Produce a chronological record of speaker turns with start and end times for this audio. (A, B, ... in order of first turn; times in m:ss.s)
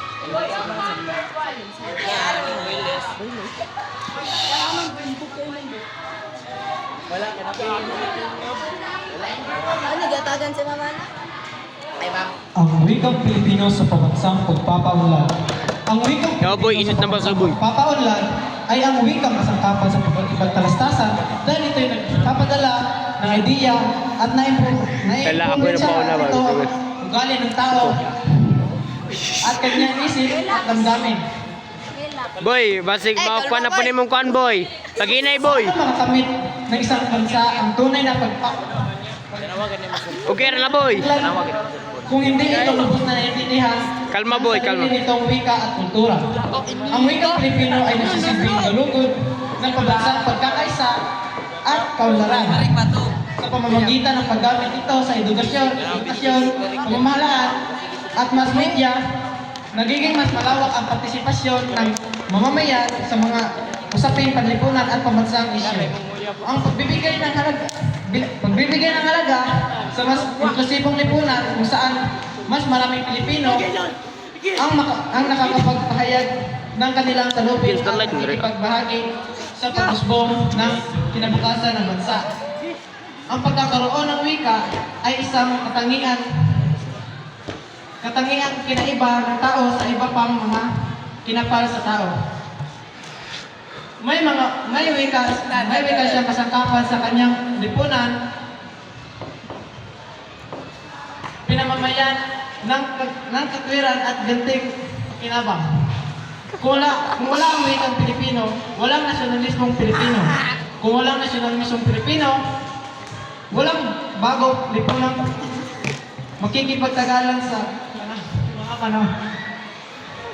0:00.6-0:01.0 A
0:01.8-0:03.3 A
0:04.6-0:05.8 A
0:09.8-0:11.1 A
0:12.6-0:15.3 B
0:15.9-0:28.1 B
0:16.4-0:17.6 C
0:25.2-0:26.7 C
0:29.4-0:31.2 B
0:32.4-0:35.8 C
0:35.5-0:38.7 B
0:40.2-0:41.1 C
0:40.9-0:41.4 B
0:42.1-0:46.3 B
0:44.1-0:44.9 C
0:46.9-0:51.0 B
0:51.6-0:52.8 B
0:53.4-0:57.6 B
0:58.2-0:59.0 B
0:59.7-1:13.6 B
1:14.6-1:19.0 B
1:17.6-1:18.4 C
1:19.6-1:22.3 B
1:23.3-1:26.2 B
1:28.0-1:30.7 B
1:31.2-1:32.2 B
1:34.0-1:38.1 B
1:41.4-1:45.6 B
1:46.6-1:52.4 B
1:53.5-1:55.3 B
1:56.4-1:59.1 B